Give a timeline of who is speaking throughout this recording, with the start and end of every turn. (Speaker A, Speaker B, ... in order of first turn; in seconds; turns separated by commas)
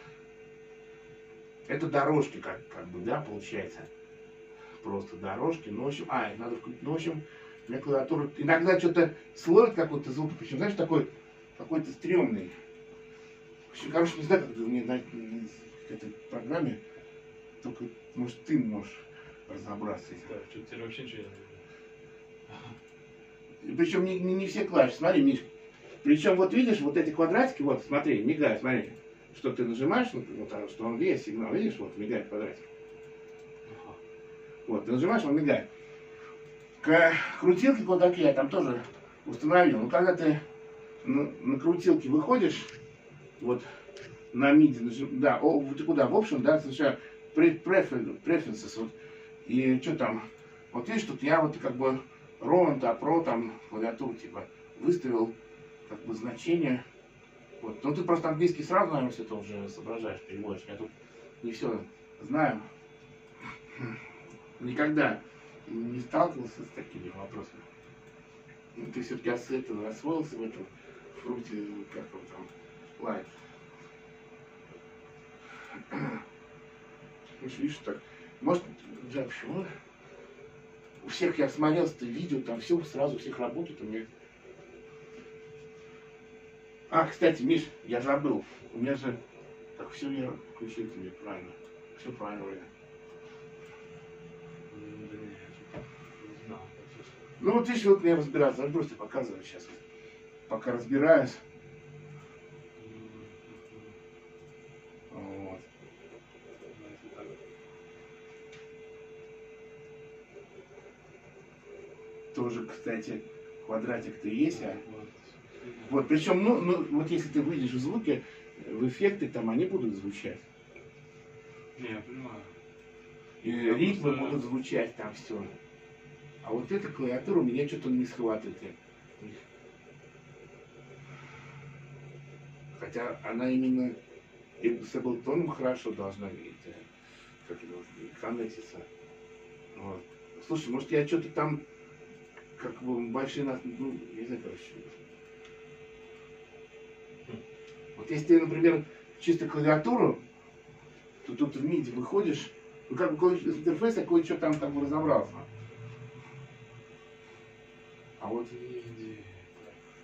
Speaker A: 1.7-3.9, Speaker A: 4.8-12.5, Speaker A: 13.7-16.8, Speaker A: 17.6-20.3, Speaker B: 20.3-21.6, Speaker A: 23.6-25.5, Speaker A: 26.0-32.6, Speaker B: 33.7-34.0, Speaker A: 34.7-35.7, Speaker A: 36.8-40.4, Speaker A: 41.0-42.7, Speaker A: 43.4-43.6, Speaker A: 44.3-48.9, Speaker A: 49.5-55.3, Speaker A: 55.9-56.8, Speaker A: 57.6-60.9, Speaker A: 61.4-62.6, Speaker A: 64.6-67.6, Speaker A: 68.8-73.3, Speaker A: 75.9-76.2, Speaker A: 77.4-79.7, Speaker A: 81.0-84.1, Speaker A: 86.9-89.2, Speaker A: 89.8-92.7, Speaker B: 94.7-97.1, Speaker A: 97.4-99.8, Speaker A: 100.5-101.4, Speaker B: 102.8-103.9, Speaker A: 105.1-105.6, Speaker B: 106.7-107.3, Speaker A: 112.3-114.8, Speaker B: 114.5-116.0, Speaker A: 115.8-120.4, Speaker B: 121.8-122.5, Speaker A: 123.4-125.5, Speaker B: 123.6-124.5, Speaker A: 126.4-129.4, Speaker A: 132.8-134.0, Speaker A: 134.6-136.8, Speaker A: 137.4-138.9, Speaker A: 139.8-141.6, Speaker A: 142.6-144.9, Speaker A: 147.9-150.2, Speaker A: 151.2-155.5, Speaker A: 158.2-158.9, Speaker B: 158.8-159.6